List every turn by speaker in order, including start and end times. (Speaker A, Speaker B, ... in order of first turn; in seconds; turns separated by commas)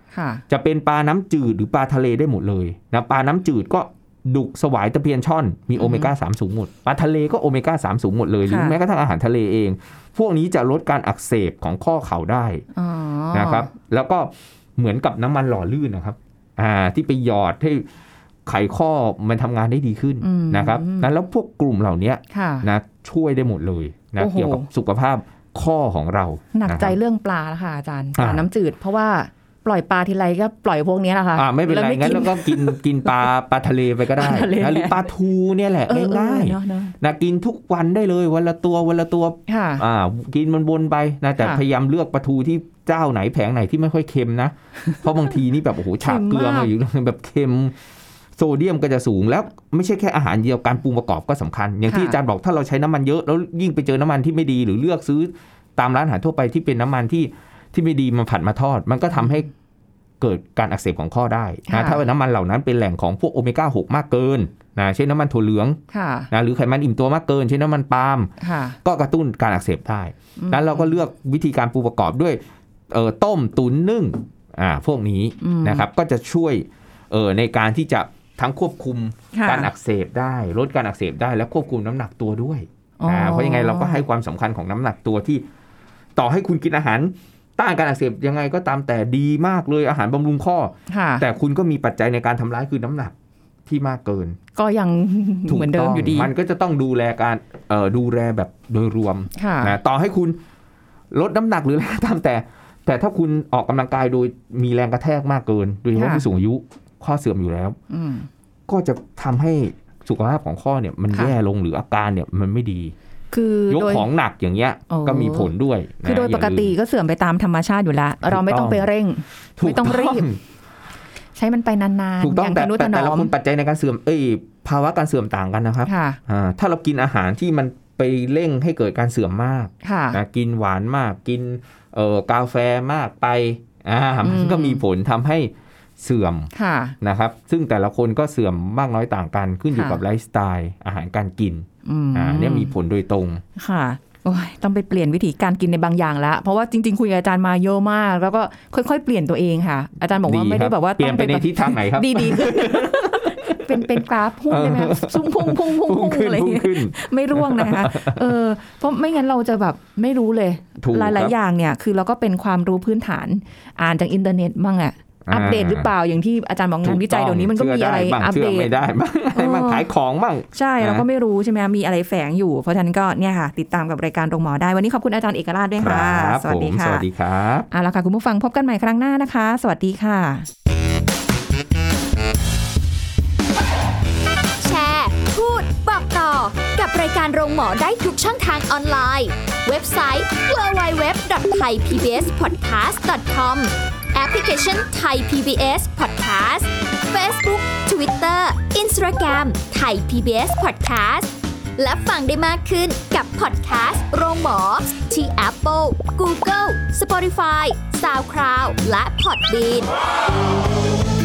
Speaker A: 0.1-0.4, Speaker B: 0.5-12.6, Speaker A: 5.8-6.1, Speaker A: 8.4-8.8, Speaker A: 12.7-13.7, Speaker B: 13.3-17.9, Speaker B: 18.4-26.9, Speaker A: 20.2-21.1, Speaker A: 22.3-22.7, Speaker A: 24.2-24.7, Speaker A: 26.5-33.2, Speaker B: 28.1-28.5, Speaker B: 31.3-47.8, Speaker A: 34.2-35.0, Speaker A: 35.9-37.0, Speaker A: 39.5-39.8, Speaker A: 46.0-46.7, Speaker B: 48.4-59.5, Speaker A: 51.9-52.2, Speaker B: 60.2-65.8, Speaker A: 61.7-62.0, Speaker A: 65.9-66.3, Speaker B: 66.3-68.3, Speaker A: 68.4-68.8, Speaker B: 68.8-85.4, Speaker A: 70.4-70.9, Speaker A: 75.4-75.8, Speaker A: 79.3-79.7, Speaker A: 83.0-84.0, Speaker B: 86.2-93.1, Speaker A: 90.9-91.2, Speaker B: 93.7-94.4, Speaker A: 94.5-96.3, Speaker B: 95.5-100.4, Speaker A: 99.3-99.7, Speaker B: 101.1-107.8, Speaker A: 105.9-106.2, Speaker A: 107.9-108.3, Speaker B: 108.7-112.9, Speaker A: 113.3-114.1, Speaker B: 113.7-116.7, Speaker A: 114.9-115.5, Speaker A: 116.0-120.3, Speaker B: 118.2-118.9, Speaker B: 119.6-120.4, Speaker A: 121.3-123.3, Speaker B: 122.2-136.5, Speaker A: 125.8-126.2, Speaker A: 129.8-130.2, Speaker A: 134.2-134.8, Speaker A: 136.5-136.9, Speaker B: 137.0-143.4, Speaker A: 139.7-140.0, Speaker A: 141.8-142.7, Speaker A: 143.6-168.7, Speaker B: 150.3-154.0, Speaker B: 154.5-158.2, Speaker B: 160.8-161.3, Speaker B: 165.2-165.9, Speaker B: 166.8-171.1, Speaker A: 169.3-169.8, Speaker A: 170.5-177.0, Speaker B: 175.8-177.7, Speaker A: 177.7-180.5, Speaker C: 184.6-209.9